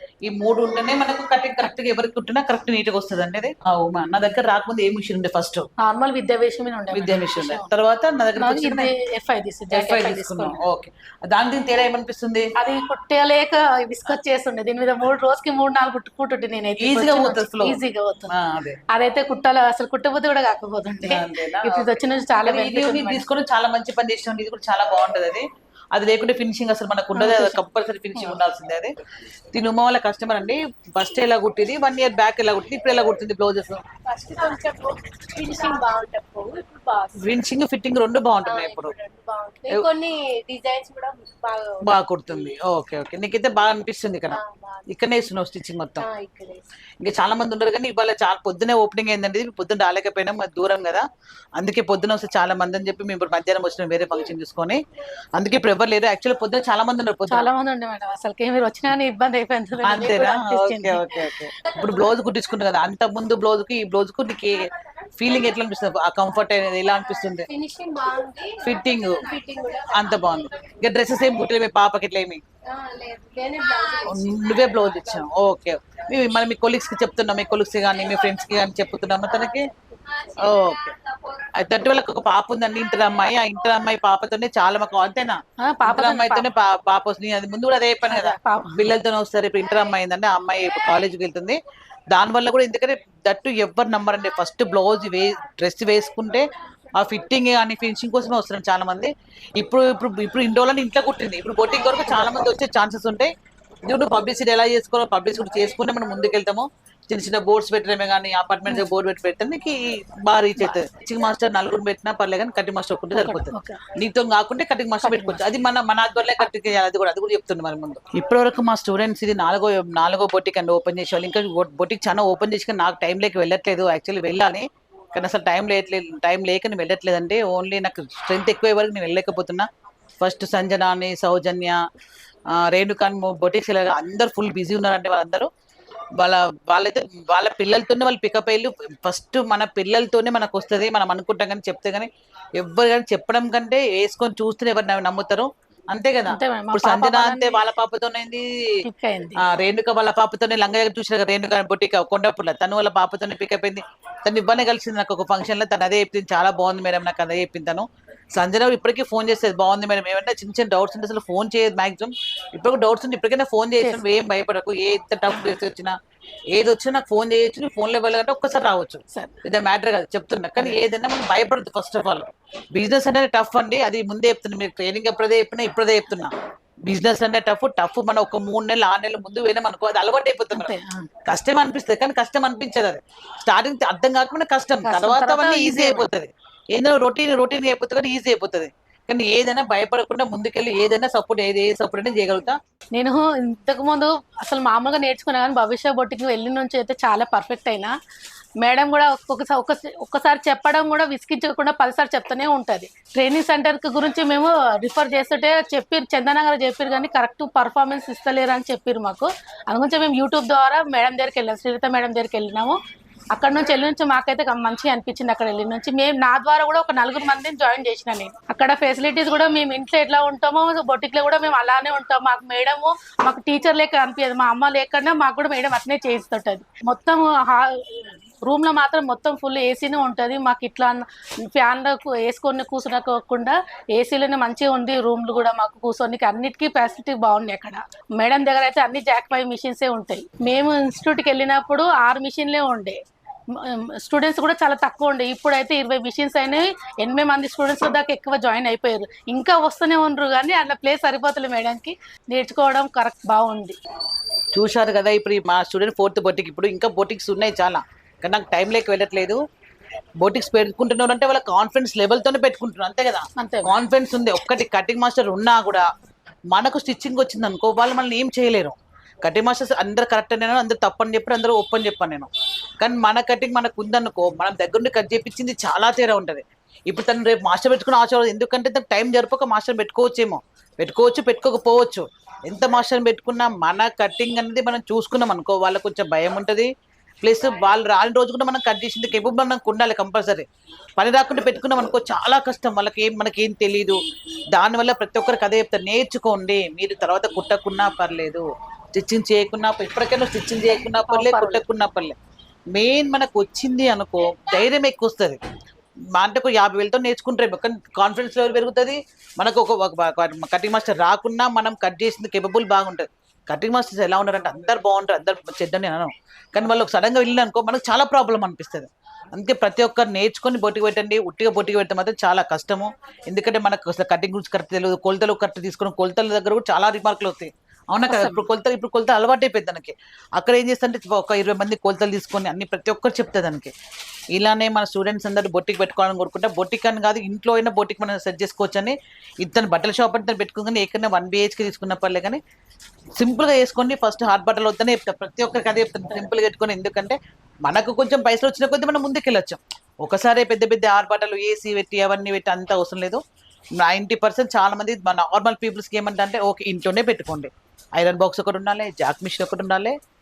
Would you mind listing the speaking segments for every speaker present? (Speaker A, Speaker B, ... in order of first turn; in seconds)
Speaker A: 0.2-5.7, 6.9-8.9, 9.7-12.5, 16.8-18.8, 21.0-21.9, 22.4-28.9, 29.5-33.9, 37.2-39.0, 41.8-46.0, 47.0-51.0, 51.6-54.8, 55.4-57.5, 59.8-67.5, 68.6-69.3, 69.9-72.4, 74.0-79.7, 80.4-81.0, 81.5-91.6, 92.1-103.3, 103.9-129.7, 130.2-131.8, 132.5-135.5, 136.2-148.8, 149.4-165.9, 166.5-176.3, 176.9-192.6, 254.5-259.4, 260.2-265.8, 266.5-286.7, 287.2-290.5, 291.0-294.0, 294.5-302.2, 302.7-305.4, 306.1-333.7, 334.3-342.4, 343.2-353.2, 353.8-359.9
Speaker B: 5.8-7.7, 8.4-10.6, 12.6-18.3, 18.9-23.2, 27.1-27.6, 28.1-28.4, 57.3-62.1, 67.5-67.8, 69.2-70.0, 73.5-74.1, 85.6-86.5, 88.1-88.9, 102.1-102.5, 113.1-113.8, 115.0-115.5, 146.3-147.7, 148.8-149.4, 169.1-169.4, 180.5-181.1, 184.8-186.1, 192.9-197.9, 198.6-212.8, 213.3-243.0, 243.5-253.8, 263.4-263.8, 301.1-301.6, 328.1-328.5
Speaker C: 34.1-37.2, 38.5-41.8, 44.3-44.9, 46.0-46.6, 67.5-68.6, 69.3-70.4, 72.7-74.4